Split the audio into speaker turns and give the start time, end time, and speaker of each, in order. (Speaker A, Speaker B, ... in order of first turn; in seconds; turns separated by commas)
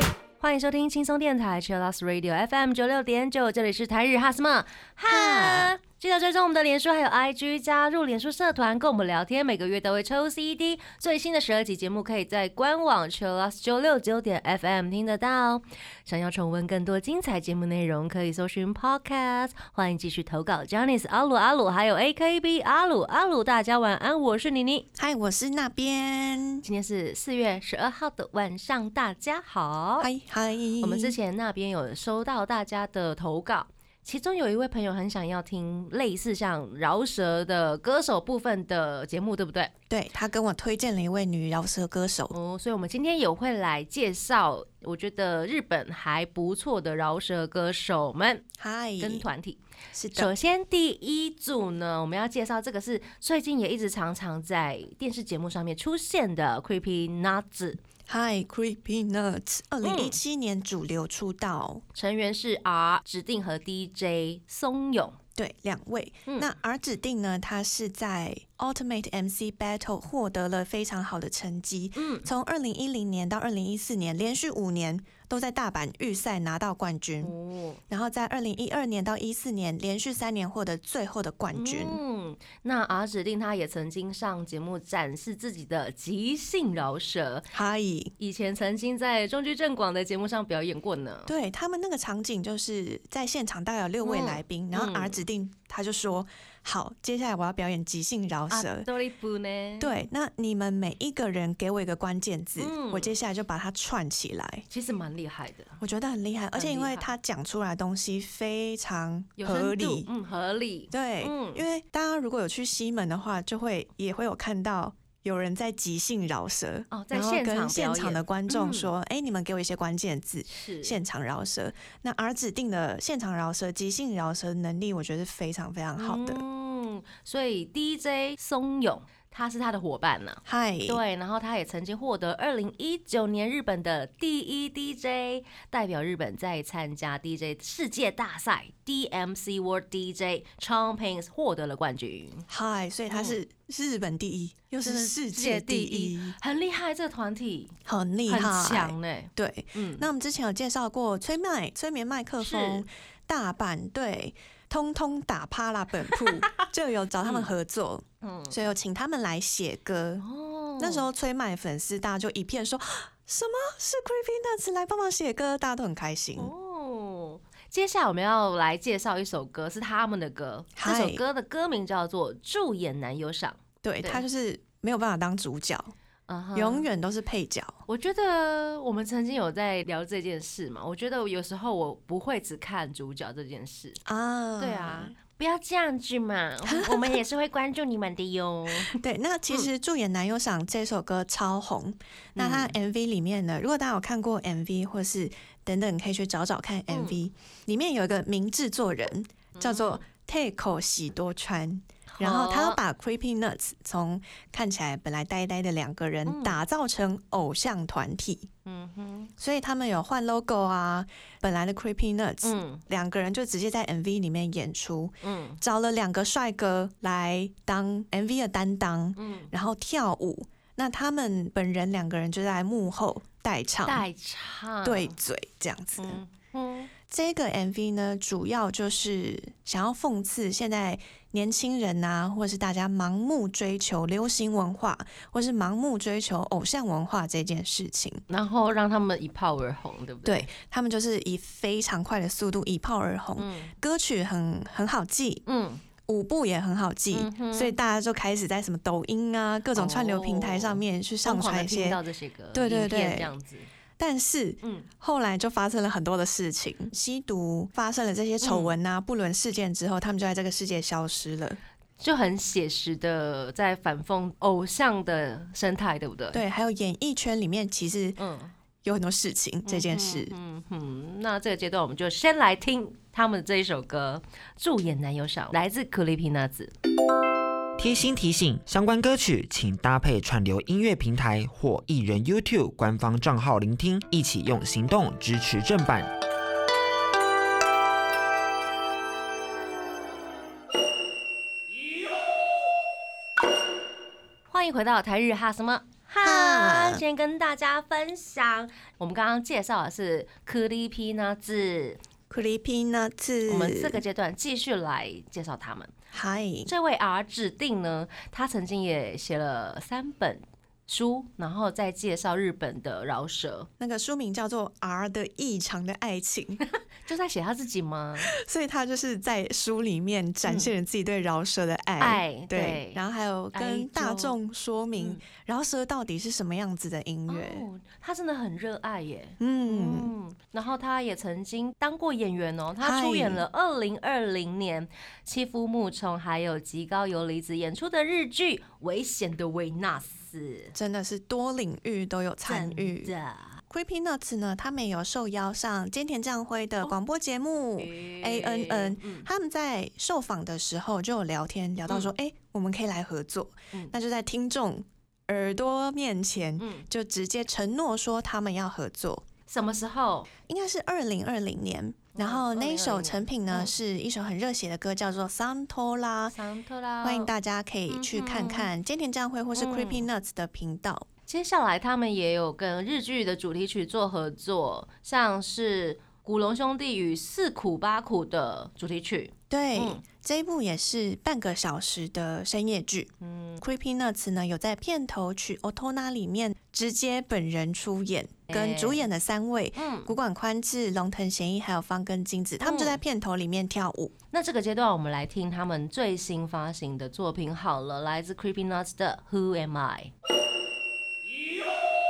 Speaker A: 0.4-24.9, Speaker B: 5.1-5.7, Speaker B: 25.0-26.6, Speaker A: 26.6-30.1, Speaker B: 30.0-31.2, Speaker A: 30.8-39.7, Speaker B: 39.9-42.3, Speaker A: 42.3-49.6, Speaker B: 48.6-49.2, Speaker B: 49.9-50.3, Speaker A: 50.1-57.8, Speaker B: 58.1-61.8, Speaker A: 59.8-60.2, Speaker A: 62.0-65.2, Speaker B: 65.4-77.3, Speaker A: 66.3-66.5, Speaker A: 72.0-72.3, Speaker A: 77.2-77.8, Speaker B: 77.9-82.0, Speaker A: 81.5-87.5, Speaker B: 87.5-88.1, Speaker A: 88.2-91.3, Speaker B: 91.3-98.9, Speaker A: 94.0-95.2, Speaker A: 98.5-100.0, Speaker B: 99.8-104.7, Speaker A: 102.6-103.1, Speaker A: 104.7-105.8, Speaker B: 105.8-110.1, Speaker A: 106.5-107.1, Speaker A: 109.4-111.7, Speaker B: 110.9-126.4, Speaker A: 116.9-118.9, Speaker A: 120.5-121.0, Speaker A: 126.0-142.5, Speaker B: 130.5-131.0, Speaker B: 142.5-146.4, Speaker A: 143.1-143.4, Speaker A: 144.8-147.8, Speaker B: 147.9-160.2, Speaker A: 148.3-150.1, Speaker A: 152.4-152.8, Speaker A: 156.1-156.7, Speaker A: 157.2-157.5, Speaker A: 158.2-158.6, Speaker A: 160.2-161.1, Speaker B: 160.8-166.5, Speaker A: 166.4-174.2, Speaker B: 170.8-171.2, Speaker B: 173.8-175.9, Speaker A: 176.3-176.9, Speaker B: 176.6-177.8, Speaker A: 177.9-184.0, Speaker B: 184.1-185.2, Speaker A: 184.6-189.7, Speaker B: 186.7-187.2, Speaker B: 188.8-208.5, Speaker A: 192.4-192.8, Speaker A: 196.9-197.2, Speaker A: 199.6-200.0, Speaker A: 202.1-202.8, Speaker A: 206.3-206.6, Speaker A: 208.7-209.3, Speaker B: 209.4-224.0, Speaker A: 212.4-212.8, Speaker A: 215.2-215.6, Speaker A: 219.2-219.5, Speaker A: 223.8-225.2, Speaker B: 224.8-226.2, Speaker A: 226.0-226.9, Speaker B: 227.1-238.2, Speaker A: 238.3-240.5, Speaker B: 240.2-245.4, Speaker A: 243.4-243.7, Speaker A: 245.5-245.8, Speaker B: 246.1-252.0, Speaker A: 247.1-247.7, Speaker A: 249.7-253.7, Speaker B: 252.5-253.3, Speaker B: 254.0-261.6, Speaker A: 254.6-254.9, Speaker A: 258.4-258.8, Speaker A: 262.0-266.4, Speaker B: 266.3-268.2, Speaker A: 268.2-268.5, Speaker B: 268.8-270.3, Speaker A: 269.7-276.7, Speaker C: 277.8-286.1, Speaker A: 294.5-302.0, Speaker B: 296.2-297.0, Speaker B: 302.3-304.0, Speaker A: 303.5-305.9, Speaker B: 306.1-306.7, Speaker A: 306.7-313.7, Speaker B: 313.8-316.6, Speaker A: 316.6-318.3, Speaker B: 318.2-327.7, Speaker A: 320.5-320.7, Speaker A: 322.0-323.0, Speaker A: 323.5-324.4, Speaker A: 325.0-325.2, Speaker A: 327.3-340.8, Speaker B: 329.4-330.1, Speaker B: 332.8-333.4, Speaker B: 340.8-343.1, Speaker A: 342.4-343.6, Speaker B: 343.7-359.3, Speaker A: 347.8-349.3, Speaker A: 356.6-356.9, Speaker A: 359.5-360.3, Speaker B: 360.5-366.4, Speaker A: 362.1-363.7, Speaker A: 366.3-367.3, Speaker B: 367.0-371.1, Speaker A: 367.9-368.7, Speaker A: 369.6-370.1, Speaker A: 371.3-380.0, Speaker B: 379.5-394.1, Speaker A: 383.2-383.6, Speaker A: 388.5-389.0, Speaker A: 389.8-390.1, Speaker A: 392.6-393.0, Speaker A: 394.3-400.1